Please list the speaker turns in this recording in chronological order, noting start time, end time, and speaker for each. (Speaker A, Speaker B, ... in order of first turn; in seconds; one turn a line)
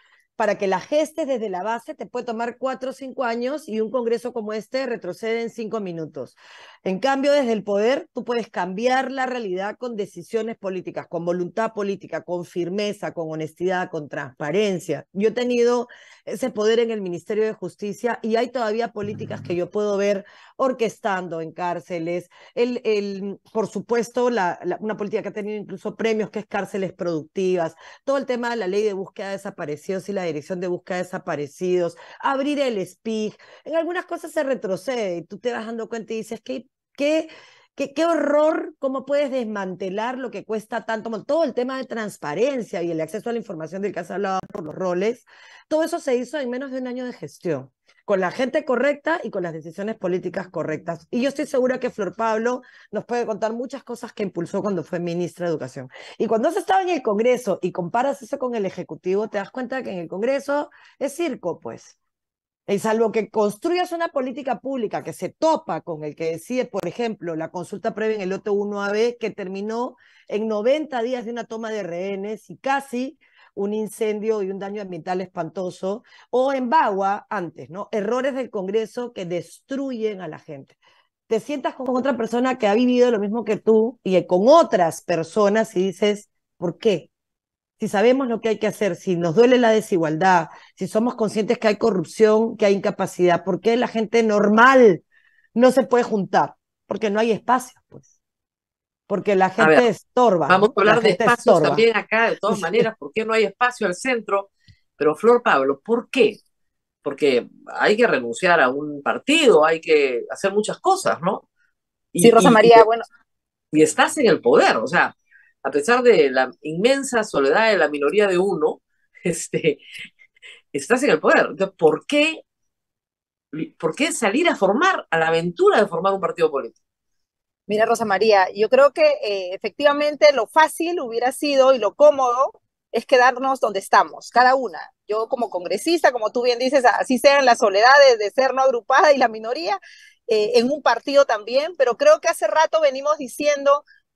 Speaker A: 0.4-61.9
Speaker A: 62.7-80.8
Speaker A: 81.3-87.1
Speaker A: 87.8-95.0
Speaker A: 95.5-98.0
Speaker A: 99.1-101.8
Speaker B: 99.6-99.9
Speaker B: 100.5-106.4
Speaker A: 102.5-102.8
Speaker B: 107.0-111.4
Speaker B: 112.1-112.9
Speaker C: 112.2-113.0
Speaker B: 113.7-119.8
Speaker B: 120.7-122.4
Speaker B: 123.5-126.8
Speaker C: 127.7-143.8